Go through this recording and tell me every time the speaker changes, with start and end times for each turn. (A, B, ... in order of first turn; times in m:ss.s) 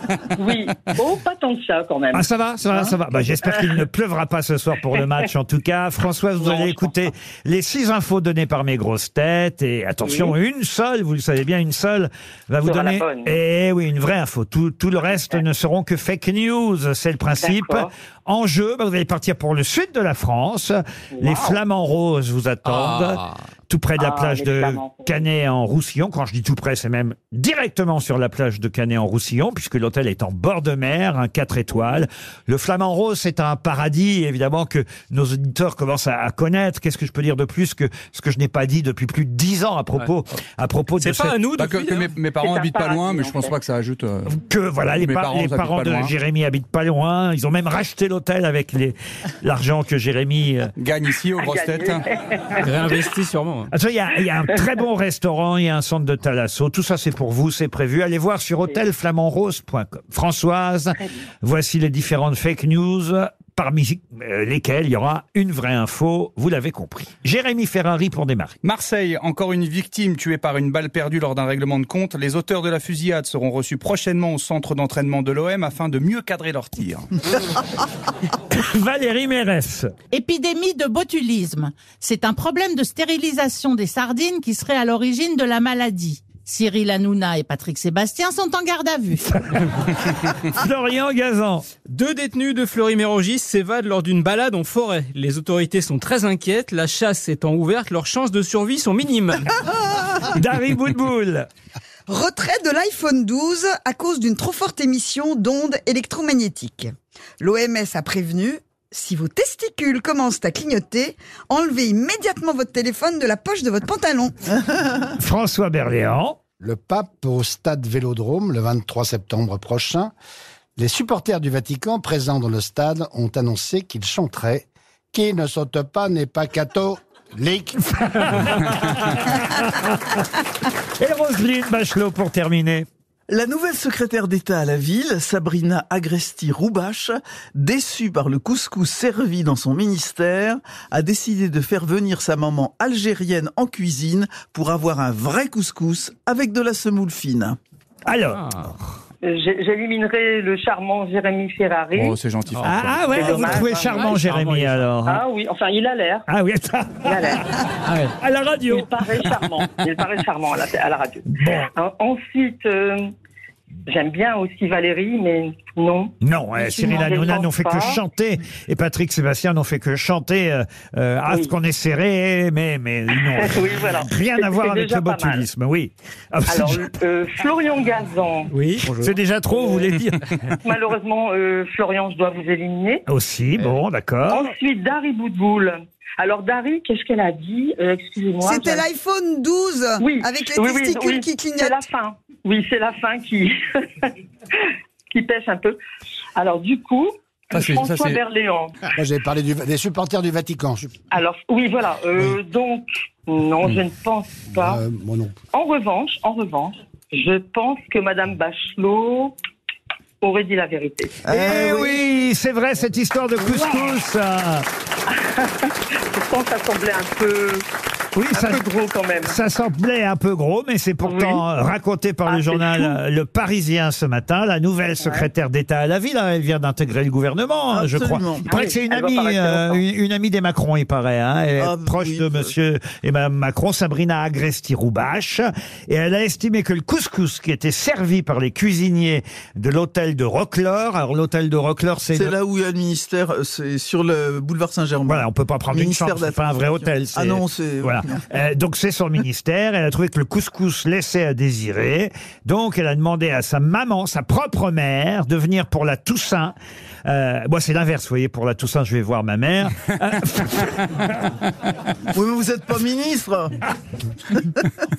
0:00.4-0:02.2 A
0:02.1-0:41.4 B
0:03.4-0:03.8 A
0:06.4-0:07.1 A
0:10.0-0:10.4 A
0:12.6-0:13.4 A
0:15.1-0:15.4 A
0:17.4-0:17.9 A
0:21.1-0:21.6 A
0:22.7-0:23.3 C
0:24.0-0:25.3 A
0:41.0-0:42.2 C
0:41.0-0:44.4 D
0:42.4-0:43.6 A
0:44.3-0:50.7 B
0:44.9-0:46.1 D
0:50.8-0:52.0 D
0:51.4-0:53.0 A
0:52.6-0:53.7 C
0:53.7-1:08.6 B
1:08.6-1:17.1 D
1:18.5-1:19.9 B
1:20.1-1:29.3 E
1:30.5-1:31.7 B
1:31.9-1:39.7 C
1:40.2-1:41.5 B
1:42.1-1:54.3 F
1:55.2-1:56.4 B
1:56.6-2:00.1 G
2:00.8-2:07.9 G
2:07.9-2:10.2 B
2:11.0-2:12.9 B
2:13.3-2:27.6 H
2:28.1-2:28.5 B
2:29.2-2:32.2 A
2:31.9-2:33.5 D
2:32.6-2:35.2 B
2:33.1-2:34.1 A
2:33.9-2:34.8 C
2:35.0-2:36.3 A
2:36.3-2:37.7 B
2:37.0-2:37.5 A
2:37.8-2:38.1 C
2:38.2-2:39.6 B
2:38.7-2:43.1 A
2:41.4-2:41.7 B
2:43.9-2:48.0 A
2:46.2-2:56.9 B
2:51.3-2:51.6 A
2:53.1-2:55.5 A
2:56.5-2:58.5 A
2:58.5-2:59.1 C
2:58.8-3:00.3 B
2:59.5-2:59.9 A
3:00.5-3:03.0 A
3:03.1-3:04.5 B
3:04.3-3:08.9 A
3:08.4-3:11.8 F
3:10.0-3:15.8 A
3:16.4-3:18.8 A
3:17.5-3:18.2 D
3:19.0-3:20.9 G
3:21.1-3:24.8 A
3:24.5-3:25.4 G
3:25.5-3:29.4 A
3:30.2-3:31.3 A
3:31.3-3:32.0 H
3:31.3-3:34.7 B
3:33.4-3:34.0 A
3:35.1-3:37.7 A
3:38.2-3:38.6 B
3:38.3-3:39.4 A
3:39.2-4:02.4 B
3:41.0-3:41.4 A
3:42.3-3:43.0 A
3:45.0-3:45.3 A
3:47.7-3:48.5 H
3:48.5-3:49.8 A
3:51.6-3:52.6 H
4:02.1-4:08.2 H
4:05.1-4:21.2 B
4:22.1-4:23.6 H